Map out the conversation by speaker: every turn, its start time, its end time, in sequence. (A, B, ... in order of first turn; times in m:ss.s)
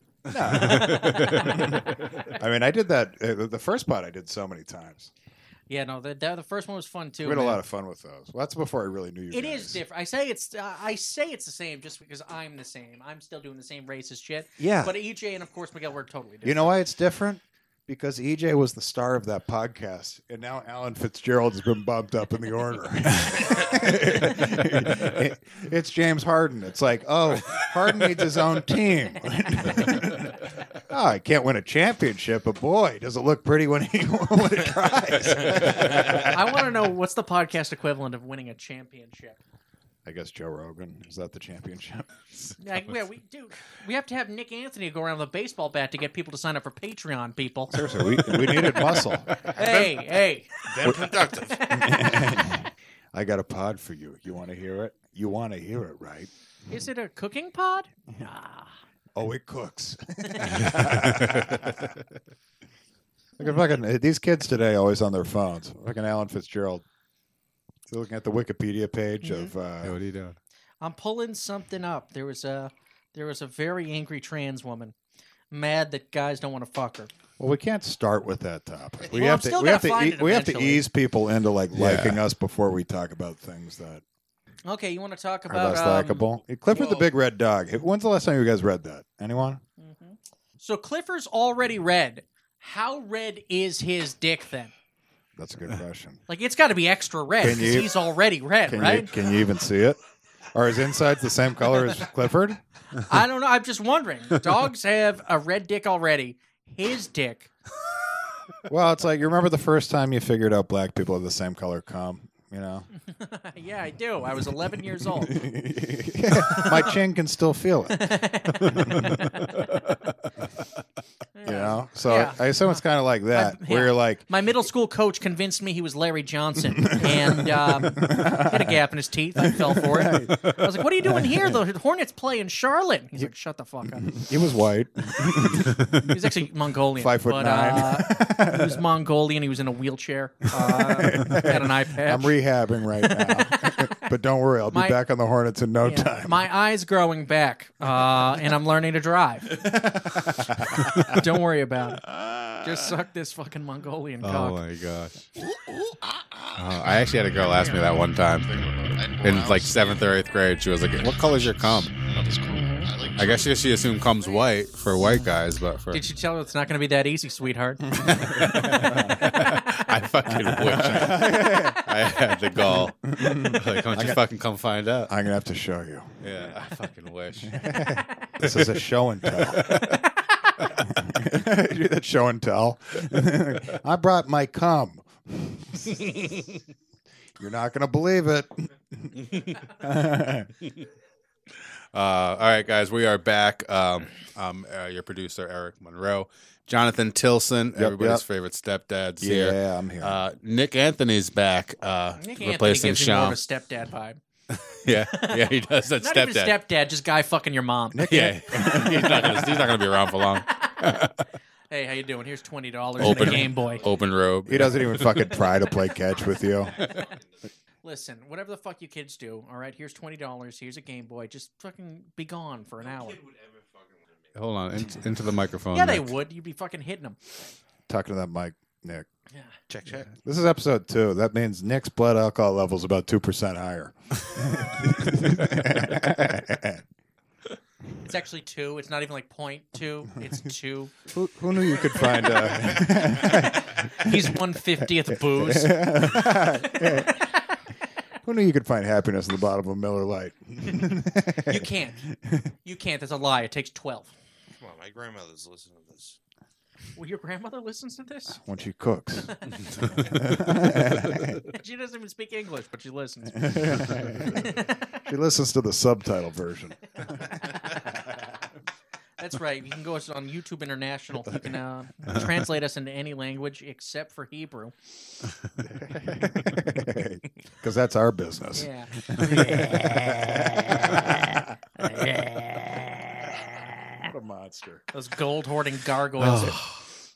0:00.2-0:05.1 A
0:00.3-0:01.8 B
0:00.4-0:02.4 C
0:05.7-0:07.6 C
0:07.2-0:09.8 A
0:09.3-0:16.7 C
0:14.6-0:14.9 A
0:16.4-0:36.7 A
0:35.2-0:36.2 D
0:35.8-0:39.4 C
0:40.0-0:42.1 A
0:42.6-0:48.9 C
0:47.7-0:50.0 A
0:49.4-0:50.5 C
0:50.6-0:51.7 D
0:51.4-0:52.6 C
0:51.7-0:56.3 A
0:56.7-0:58.7 C
0:59.1-1:01.9 A
1:00.6-1:02.0 B
1:03.4-1:06.8 A
1:07.9-1:10.0 A
1:09.2-1:09.5 C
1:09.8-1:10.4 B
1:10.8-1:14.9 C
1:15.5-1:17.1 C
1:17.4-1:24.0 A
1:19.1-1:20.8 C
1:21.7-1:22.2 B
1:24.6-1:27.1 C
1:25.5-1:29.6 A
1:29.8-1:34.7 C
1:35.4-1:36.2 A
1:36.3-1:39.1 C
1:37.4-1:37.9 A
1:38.6-1:40.0 A
1:40.5-1:42.6 A
1:43.0-1:47.5 C
1:48.7-1:52.9 A
1:53.0-1:55.4 C
1:55.0-1:59.2 A
1:56.3-1:57.0 C
1:57.9-1:59.8 C
1:58.7-2:00.0 B
2:01.4-2:14.1 C
2:01.4-2:04.2 A
2:06.7-2:08.8 A
2:09.4-2:10.5 A
2:10.2-2:10.8 B
2:11.0-2:11.6 A
2:13.8-2:16.1 A
2:16.0-2:22.4 C
2:17.0-2:18.8 A
2:20.6-2:26.4 A
2:23.0-2:24.0 C
2:24.7-2:25.0 C
2:25.8-2:29.6 C
2:29.5-2:31.2 A
2:30.8-2:31.2 B
2:31.1-2:32.0 C
2:32.0-2:32.9 A
2:32.6-2:34.6 C
2:34.2-2:35.2 B
2:35.4-2:36.6 D
2:36.5-2:38.5 B
2:38.5-2:40.0 D
2:39.2-2:42.0 B
2:41.2-2:43.6 D
2:42.5-2:42.9 C
2:43.2-2:46.0 B
2:45.9-2:48.6 C
2:48.0-2:49.3 A
2:48.0-2:55.1 B
2:49.1-2:49.8 C
2:50.2-2:51.9 A
2:52.6-2:54.2 A
2:55.1-2:56.2 A
2:56.2-2:57.8 B
2:57.5-2:59.8 A
2:58.4-3:00.1 B
3:00.7-3:06.1 A
3:07.4-3:10.5 A
3:09.2-3:09.6 B
3:11.9-3:23.4 B
3:17.8-3:18.2 A
3:19.2-3:20.2 A
3:22.2-3:24.2 C
3:24.5-3:26.5 B
3:25.1-3:29.3 C
3:27.9-3:29.4 A
3:28.0-3:31.2 B
3:30.5-3:31.0 C
3:31.7-3:33.9 C
3:33.0-3:35.4 B
3:33.0-3:33.5 A
3:34.4-3:36.8 A
3:36.8-3:37.2 D
3:37.8-3:43.2 C
3:42.8-3:44.4 D
3:44.3-3:46.1 B
3:45.7-3:47.2 C
3:47.9-3:49.1 A
3:49.7-3:50.1 D
3:50.1-3:56.8 A
3:58.0-4:00.9 C
4:01.1-4:07.3 A
4:03.2-4:07.6 C
4:08.2-4:12.5 A
4:11.4-4:12.0 C
4:12.6-4:14.1 C
4:14.6-4:16.2 D
4:16.9-4:18.4 C
4:18.4-4:21.4 A
4:19.2-4:19.6 C
4:19.7-4:20.3 B
4:21.4-4:24.9 C
4:23.4-4:27.1 A
4:27.0-4:28.0 C
4:29.2-4:34.8 C
4:32.1-4:32.3 B
4:35.6-4:41.6 A
4:38.5-4:39.8 C
4:39.2-4:39.5 B
4:41.9-4:42.7 C
4:44.0-4:44.8 A
4:44.9-4:46.6 C
4:46.2-4:46.9 B